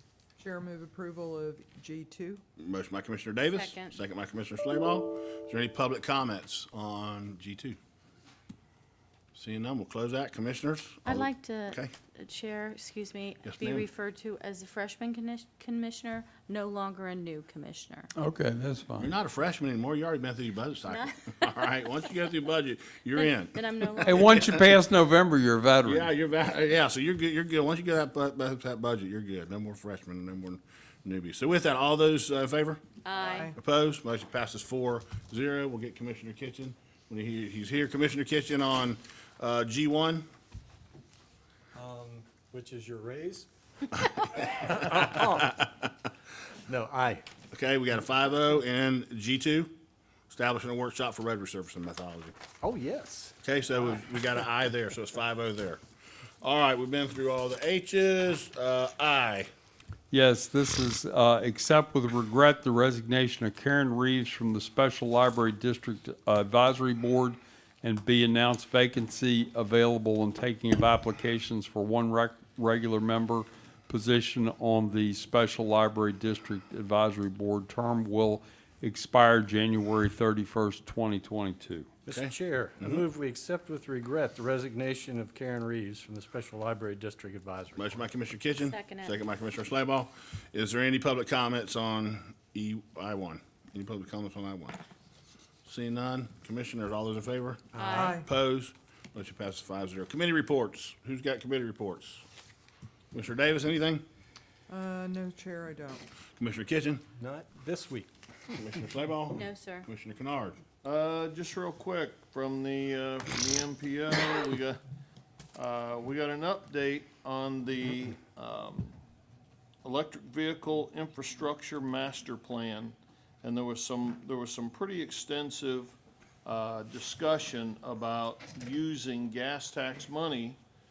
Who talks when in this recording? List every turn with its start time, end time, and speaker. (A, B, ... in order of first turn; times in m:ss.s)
0:00.4-0:02.4 A
0:02.6-0:07.8 B
0:03.5-0:04.0 C
0:09.4-0:11.9 B
0:11.0-0:18.1 C
0:13.4-0:13.9 B
0:18.2-0:19.1 D
0:19.0-0:24.6 B
0:20.9-0:21.6 C
0:23.2-0:24.6 C
0:24.3-0:26.1 D
0:25.8-0:32.8 B
0:33.0-0:33.5 C
0:33.2-0:33.5 A
0:33.5-0:40.3 B
0:41.8-0:43.5 E
0:44.0-0:45.8 B
0:44.7-0:45.5 E
0:46.7-0:47.2 E
0:47.5-0:49.7 B
0:50.3-0:52.3 B
0:52.6-0:53.4 E
0:53.4-0:55.8 B
0:56.4-0:59.5 B
1:00.1-1:21.9 D
1:22.0-1:28.1 E
1:22.1-1:23.0 B
1:27.8-1:34.8 B
1:28.6-1:29.2 C
1:35.6-1:42.2 B
1:37.7-1:38.0 E
1:37.8-1:38.2 C
1:37.9-1:38.3 A
1:43.1-1:44.0 B
1:44.7-1:46.0 A
1:46.4-1:47.0 B
1:47.2-1:48.1 E
1:48.5-1:50.6 B
1:49.4-1:49.9 C
1:50.8-1:54.8 F
1:55.6-1:59.0 F
1:59.8-2:10.6 F